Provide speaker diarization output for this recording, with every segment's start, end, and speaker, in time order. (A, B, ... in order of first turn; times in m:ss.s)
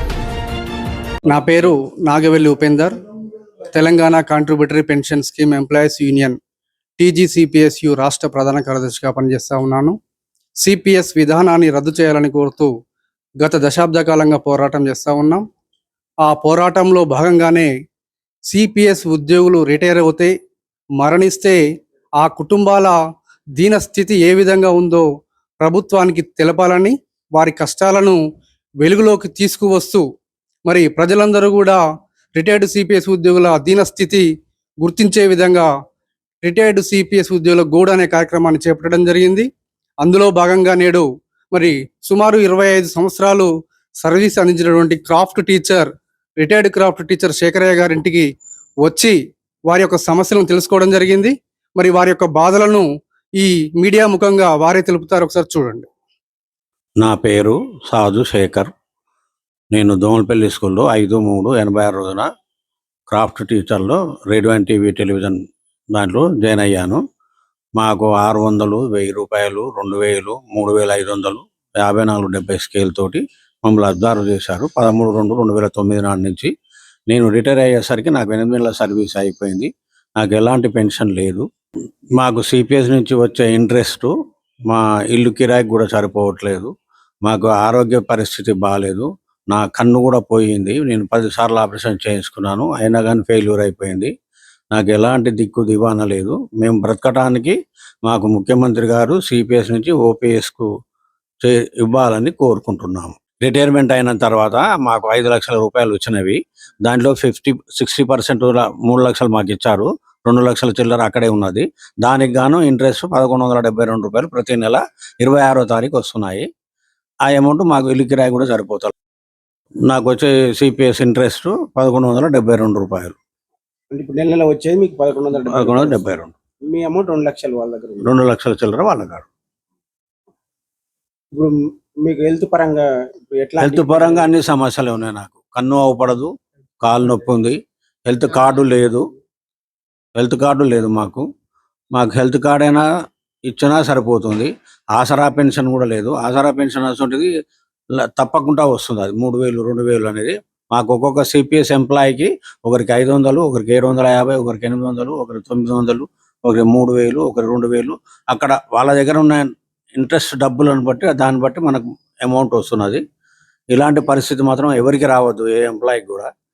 0:01.3-0:03.0 A
0:03.7-0:06.4 A
0:07.0-0:10.0 A
0:10.6-0:12.7 A
0:13.4-0:15.4 A
0:16.2-0:17.7 A
0:18.5-0:20.3 A
0:21.0-0:21.6 A
0:22.2-0:23.0 A
0:23.6-0:25.0 A
0:25.6-0:28.2 A
0:28.8-0:30.0 A
0:30.6-0:31.8 A
0:32.4-0:34.2 A
0:34.8-0:35.7 A
0:36.4-0:39.5 A
0:40.0-0:43.5 A
0:44.0-0:48.3 A
0:48.8-0:49.2 A
0:49.7-0:52.9 A
0:53.4-0:55.9 A
0:57.0-0:58.7 B
0:59.7-1:02.3 B
1:03.1-1:05.4 B
1:05.9-1:07.0 B
1:07.8-1:16.5 B
1:17.1-1:21.4 B
1:22.2-1:24.1 B
1:24.7-1:26.7 B
1:27.3-1:34.1 B
1:34.7-1:37.6 B
1:38.1-1:40.7 B
1:41.4-1:56.5 B
1:57.3-1:58.9 B
1:59.9-2:03.2 B
2:03.9-2:06.0 C
2:05.5-2:06.3 B
2:06.7-2:08.1 C
2:08.0-2:09.3 B
2:11.3-2:14.3 C
2:13.6-2:16.3 B
2:16.8-2:19.0 B
2:20.2-2:21.2 B
2:22.0-2:22.9 B
2:23.5-2:27.3 B
2:28.0-2:43.0 B
2:43.7-2:46.3 B